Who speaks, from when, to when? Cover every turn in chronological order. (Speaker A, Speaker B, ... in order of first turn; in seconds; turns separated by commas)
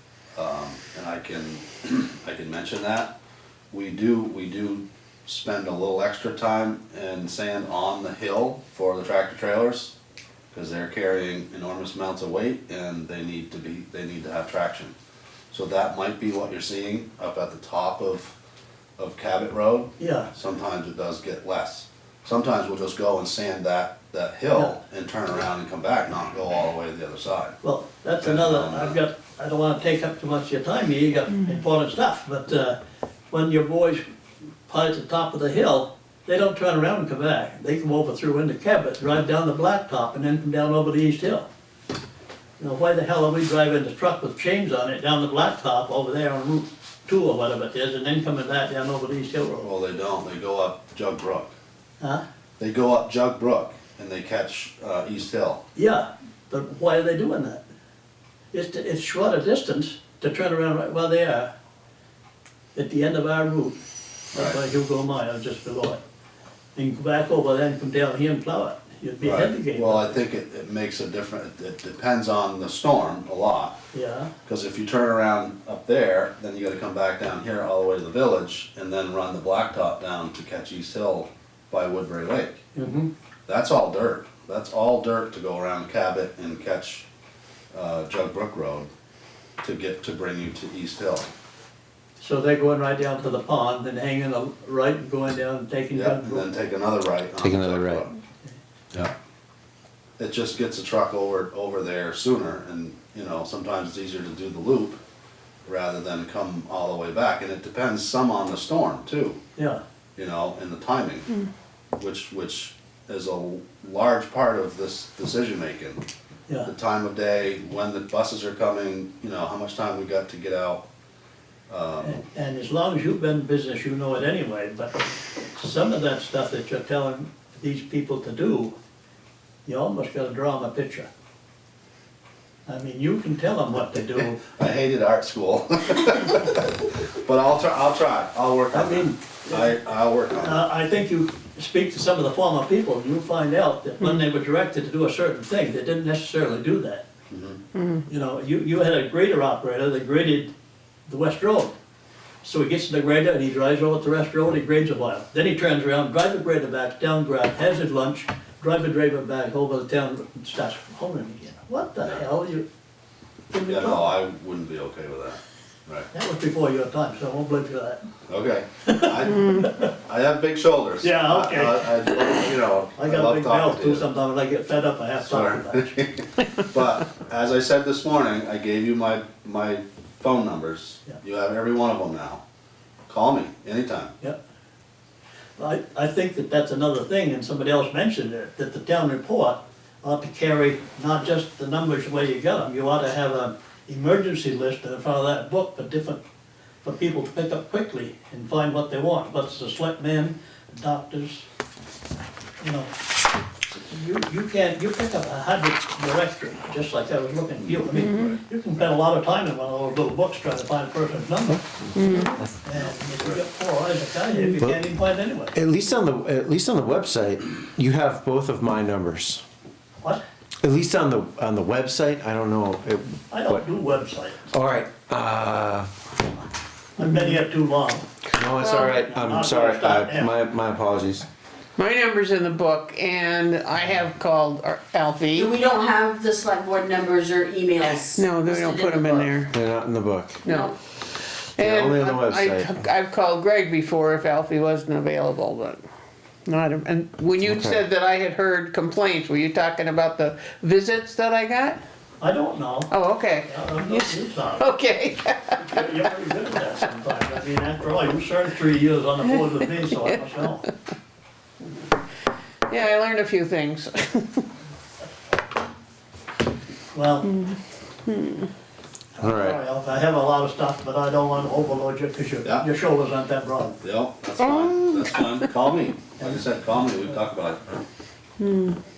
Speaker A: 0.3-3.1, Speaker A: 3.7-9.9, Speaker A: 10.5-14.9, Speaker A: 15.5-18.3, Speaker A: 19.0-27.6, Speaker B: 20.0-20.3, Speaker B: 27.6-32.8, Speaker A: 28.2-29.0, Speaker B: 33.3-34.0, Speaker B: 34.7-41.5, Speaker B: 42.6-49.7, Speaker A: 49.6-51.5, Speaker A: 52.6-55.6, Speaker B: 55.7-57.6, Speaker B: 58.5-61.5, Speaker B: 62.7-63.8, Speaker B: 64.3-66.0, Speaker B: 66.8-70.2, Speaker A: 69.2-73.8, Speaker B: 73.9-74.3, Speaker A: 74.5-82.6, Speaker B: 82.7-83.1, Speaker A: 83.5-87.0, Speaker A: 87.7-88.9, Speaker A: 89.6-91.3, Speaker B: 92.2-96.5, Speaker A: 95.9-98.1, Speaker C: 97.4-98.0, Speaker A: 100.2-105.0, Speaker A: 105.7-109.4, Speaker A: 110.2-111.3, Speaker A: 112.0-116.0, Speaker A: 116.6-120.8, Speaker A: 121.7-122.2, Speaker B: 122.0-128.7, Speaker B: 129.7-131.1, Speaker B: 132.7-134.4, Speaker A: 134.4-140.6, Speaker B: 138.7-139.7, Speaker B: 140.3-147.0, Speaker A: 147.3-147.6, Speaker D: 147.7-148.0, Speaker B: 148.1-150.5, Speaker B: 151.1-151.7, Speaker B: 152.4-162.6, Speaker B: 163.5-164.1, Speaker A: 163.6-166.1, Speaker B: 166.1-168.0, Speaker A: 168.3-174.1, Speaker B: 168.8-169.9, Speaker B: 171.0-176.0, Speaker A: 175.2-182.4, Speaker A: 183.1-184.1, Speaker B: 185.6-196.2, Speaker B: 196.8-201.4, Speaker B: 202.6-202.9, Speaker B: 203.9-215.5, Speaker A: 207.9-208.3, Speaker D: 208.0-208.3, Speaker D: 211.9-212.3, Speaker A: 212.7-213.4, Speaker C: 215.5-219.4, Speaker C: 220.6-223.6, Speaker B: 223.3-224.5, Speaker C: 224.5-225.9, Speaker B: 227.0-228.1, Speaker C: 228.3-231.3, Speaker B: 228.9-230.3, Speaker D: 231.8-235.5, Speaker E: 235.3-239.3, Speaker D: 238.1-239.5, Speaker C: 239.5-240.4, Speaker E: 240.4-240.7, Speaker D: 240.4-240.7, Speaker D: 241.6-245.8, Speaker C: 241.6-242.7, Speaker D: 246.4-251.8, Speaker C: 247.4-247.8, Speaker B: 252.2-252.9, Speaker D: 252.9-255.8, Speaker B: 253.4-254.7, Speaker B: 255.6-260.7, Speaker D: 262.7-264.4, Speaker B: 266.9-267.3, Speaker D: 267.3-268.5, Speaker B: 269.2-273.7, Speaker C: 269.2-269.6, Speaker A: 273.8-277.6, Speaker B: 276.2-277.0, Speaker D: 278.4-278.8